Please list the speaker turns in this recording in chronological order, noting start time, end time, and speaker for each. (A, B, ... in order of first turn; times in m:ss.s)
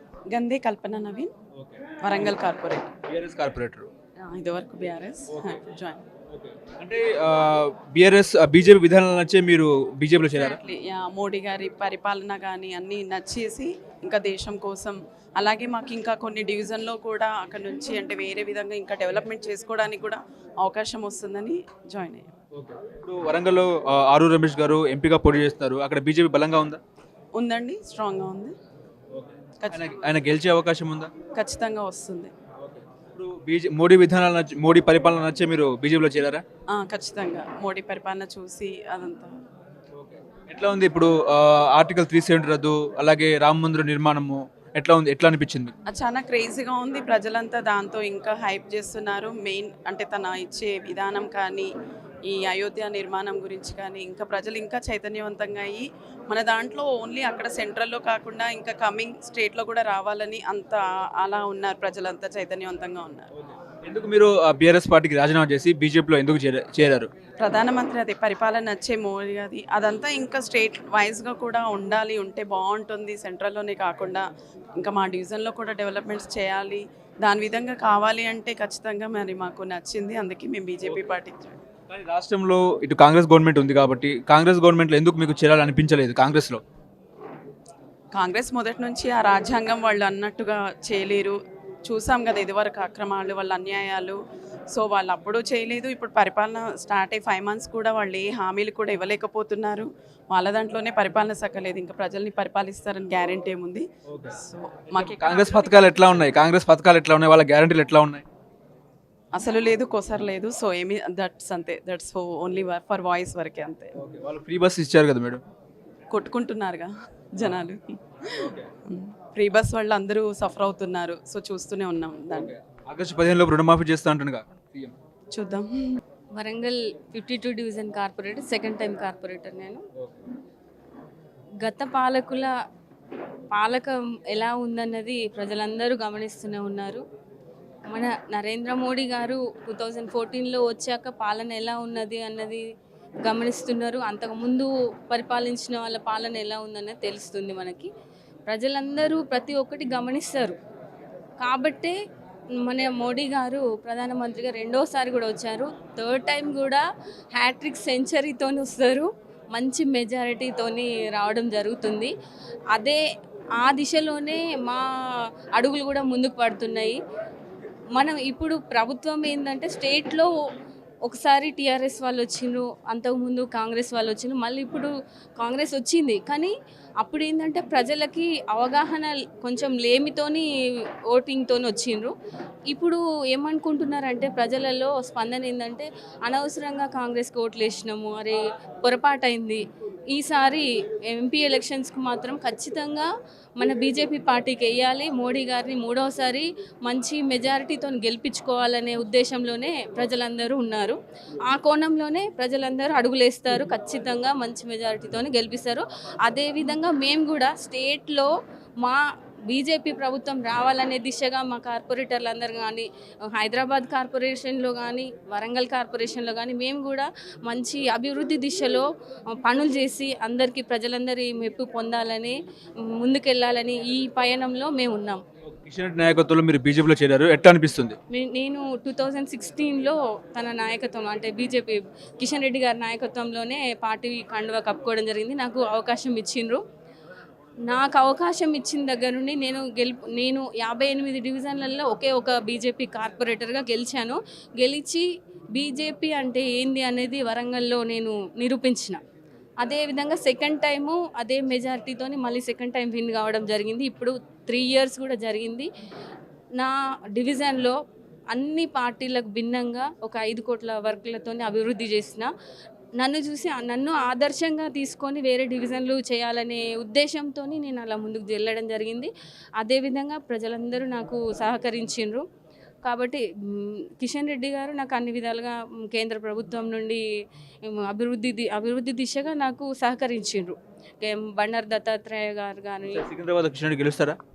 0:00.3-0:01.3 A
0:01.6-0:02.4 B
0:02.0-0:02.9 A
0:03.1-0:03.9 B
0:04.2-0:06.0 A
0:05.3-0:05.6 B
0:06.3-0:10.6 B
0:10.3-0:22.3 A
0:22.5-0:26.8 B
0:27.3-0:28.5 A
0:29.1-0:31.1 B
0:29.6-0:30.0 A
0:31.3-0:32.3 A
0:32.6-0:36.4 B
0:36.7-0:39.3 A
0:39.9-0:45.7 B
0:45.9-0:51.7 A
0:52.2-1:03.3 A
1:03.3-1:07.1 B
1:07.4-1:21.6 A
1:21.9-1:26.6 B
1:28.1-1:34.2 A
1:34.7-1:46.1 A
1:44.1-1:44.3 B
1:44.9-1:48.2 B
1:49.3-1:53.9 A
1:54.0-1:55.4 B
1:56.1-2:02.5 A
2:02.5-2:04.9 B
2:05.3-2:06.0 A
2:06.3-2:09.8 C
2:11.6-2:12.5 C
2:13.5-2:17.0 C
2:17.9-2:22.6 C
2:23.2-2:27.9 C
2:28.5-2:30.6 C
2:31.4-2:32.0 C
2:32.6-2:36.8 C
2:37.3-2:42.1 C
2:42.7-2:43.0 C
2:43.6-2:44.8 C
2:45.6-2:47.0 C
2:47.9-2:50.3 C
2:51.1-3:00.4 C
3:01.1-3:02.1 C
3:02.7-3:28.3 C
3:28.8-3:42.4 C
3:42.9-3:45.2 C
3:45.5-3:48.0 B
3:48.1-3:56.6 C
3:57.6-4:09.0 C
4:09.6-4:15.7 C
4:16.6-4:17.8 C
4:18.3-4:22.3 C
4:23.0-4:32.2 C
4:32.8-4:37.0 C
4:37.7-4:43.0 C
4:42.9-4:44.2 B